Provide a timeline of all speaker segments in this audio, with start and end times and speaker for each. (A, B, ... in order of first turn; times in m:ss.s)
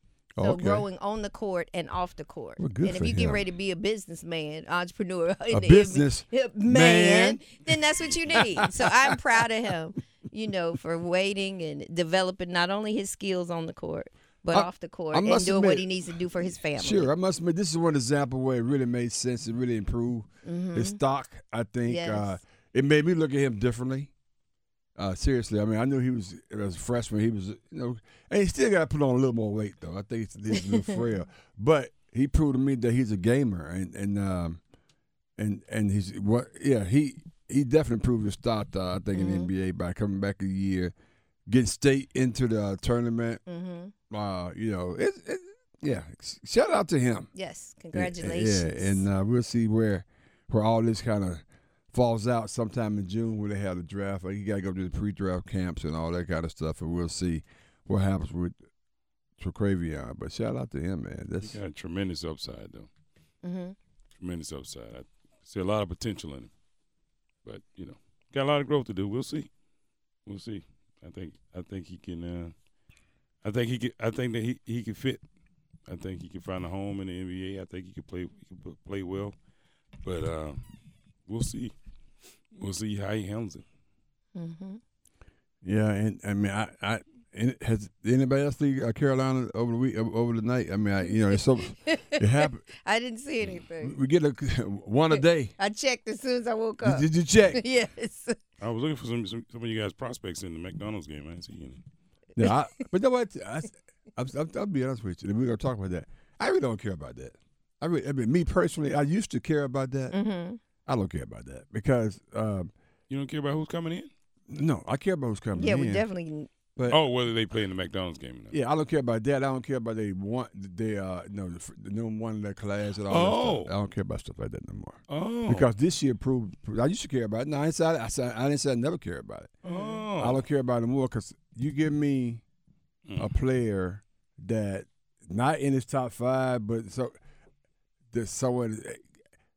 0:00.4-0:00.8 A
0:00.4-0:17.1 B
0:02.6-0:03.4 A
0:05.5-0:08.9 A
0:14.5-0:16.0 A
0:16.6-0:24.1 A
0:20.4-0:21.0 B
0:21.9-0:22.4 B
0:25.0-0:34.6 A
0:30.6-0:31.0 B
0:35.4-0:40.9 A
0:39.1-0:39.5 B
0:41.5-0:43.4 A
0:43.5-0:43.9 B
0:44.1-0:47.3 A
0:47.3-0:49.0 B
0:47.9-0:51.4 A
0:51.9-0:58.6 A
0:59.4-1:01.6 A
1:01.4-1:02.9 C
1:03.4-1:03.8 B
1:04.2-1:06.5 C
1:07.4-1:09.5 C
1:10.2-1:12.5 C
1:13.4-1:15.2 C
1:15.9-1:19.4 C
1:20.0-1:20.6 C
1:21.3-1:21.7 C
1:22.5-1:23.6 C
1:24.3-1:24.8 B
1:25.6-1:32.6 A
1:31.1-1:34.0 B
1:33.8-1:35.5 A
1:35.1-1:38.4 B
1:36.8-1:37.6 A
1:38.6-1:41.8 C
1:42.4-1:50.2 A
1:42.4-1:42.8 B
1:50.1-1:50.6 B
1:50.8-1:52.7 A
1:53.1-1:54.1 C
1:54.5-1:56.0 A
1:55.5-1:56.5 B
1:56.9-1:58.6 C
1:58.5-2:09.5 A
2:03.0-2:03.7 C
2:05.1-2:05.7 C
2:09.6-2:10.4 C
2:09.7-2:09.9 B
2:10.2-2:12.4 A
2:13.2-2:17.1 A
2:18.1-2:19.0 A